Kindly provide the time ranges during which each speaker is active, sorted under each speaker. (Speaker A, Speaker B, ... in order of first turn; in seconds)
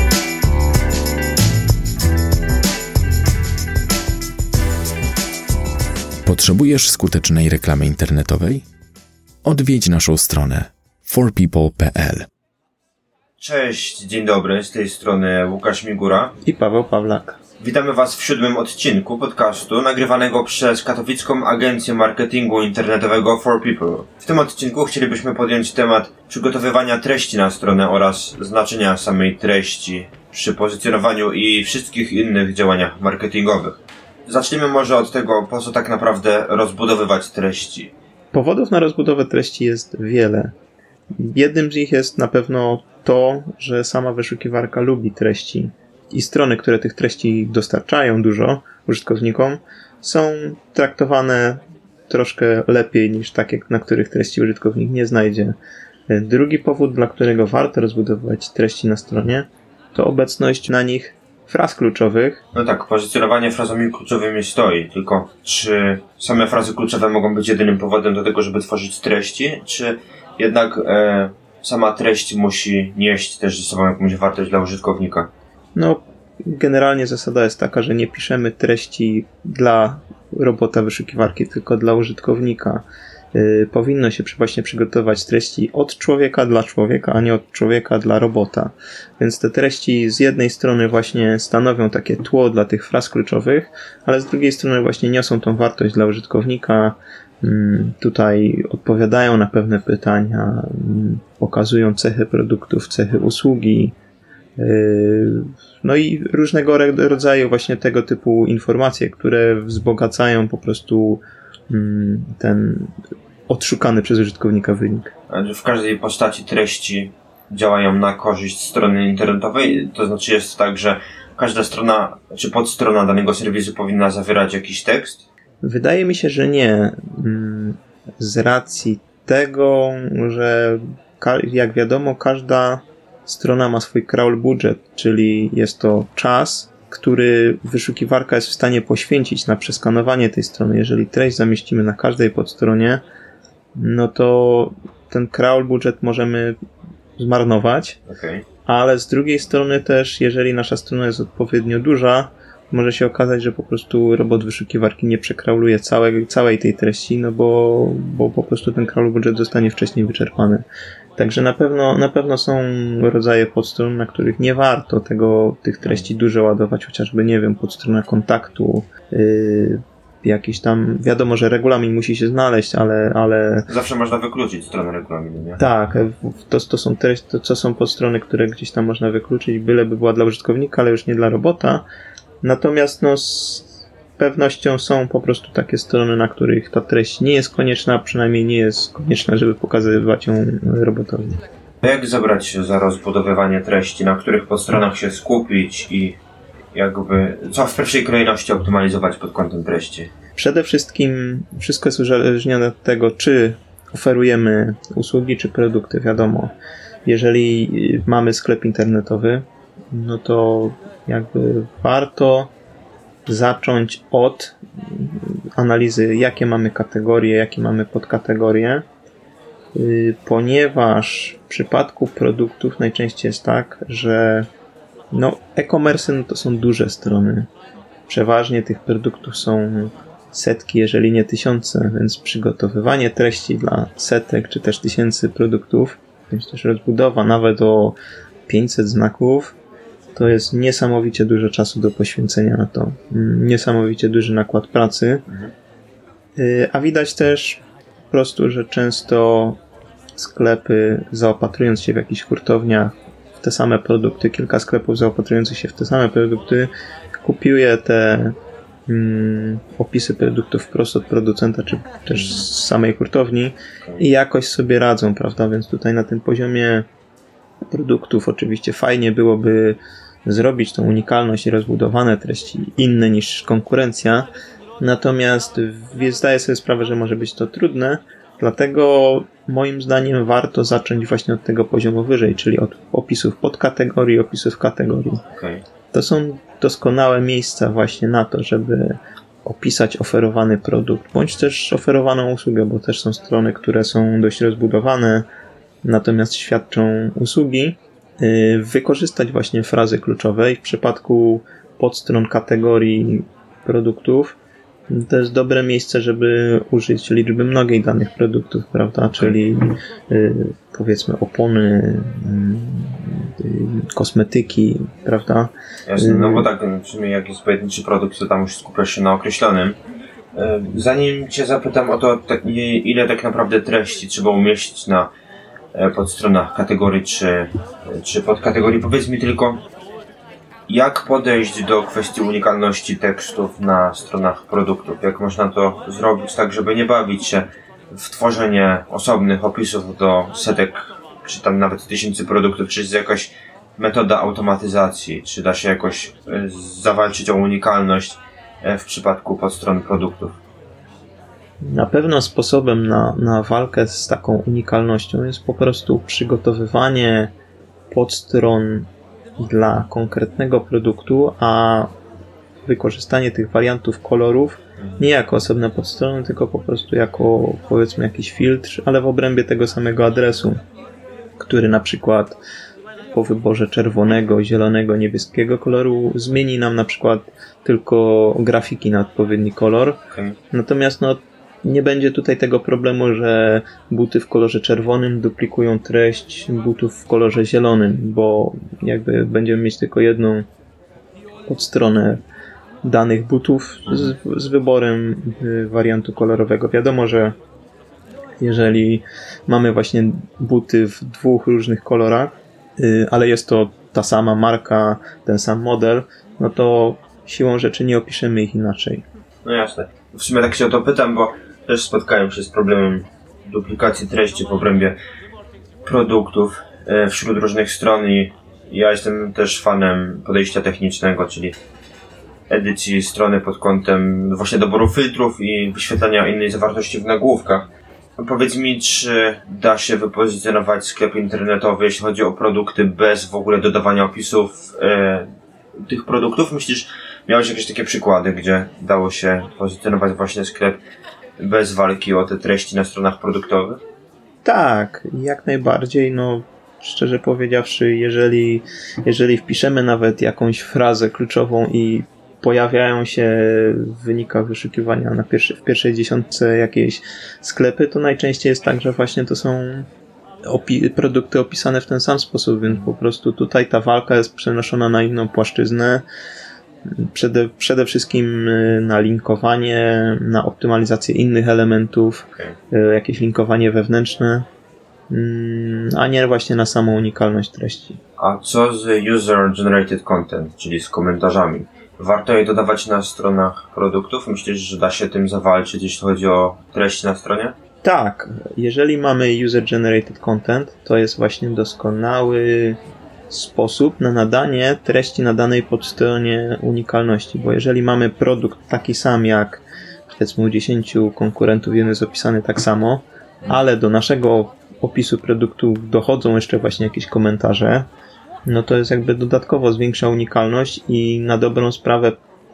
Speaker A: 6.2-8.6, 9.4-12.3
Speaker B: 13.4-16.4, 17.6-37.9, 62.5-75.3, 115.3-125.2, 148.1-148.4, 173.7-175.6, 191.8-196.2, 196.7-200.1, 262.2-262.4, 285.3-285.6, 315.9-319.8, 320.3-325.1, 325.7-329.6, 330.7-350.4, 409.4-414.9, 415.8-421.6, 422.5-435.3, 435.8-440.8, 441.4-443.8, 478.2-487.6
Speaker C: 16.4-17.4, 38.3-40.5, 41.1-55.5, 56.1-62.4, 75.7-104.0, 104.6-113.0, 113.5-115.1, 125.6-143.0, 143.7-146.6, 147.2-148.0, 148.7-160.6, 161.2-173.7, 175.6-181.8, 182.4-191.4, 200.4-206.5, 207.1-212.5, 213.3-218.8, 219.7-224.5, 225.1-227.5, 228.1-237.9, 238.5-239.5, 240.2-245.2, 246.4-249.6, 250.2-256.7, 257.2-258.4, 258.9-266.9, 267.6-274.3, 274.8-285.2, 285.9-295.2, 295.8-304.4, 304.9-316.5, 351.6-357.3, 357.9-358.9, 359.4-361.9, 362.6-370.6, 371.4-372.4, 373.1-380.0, 380.5-390.4, 391.5-392.2, 392.8-397.4, 398.4-409.0, 444.4-459.9, 460.4-466.0, 466.9-474.4, 475.1-478.0, 487.8-492.8, 493.3-507.9, 508.4-512.1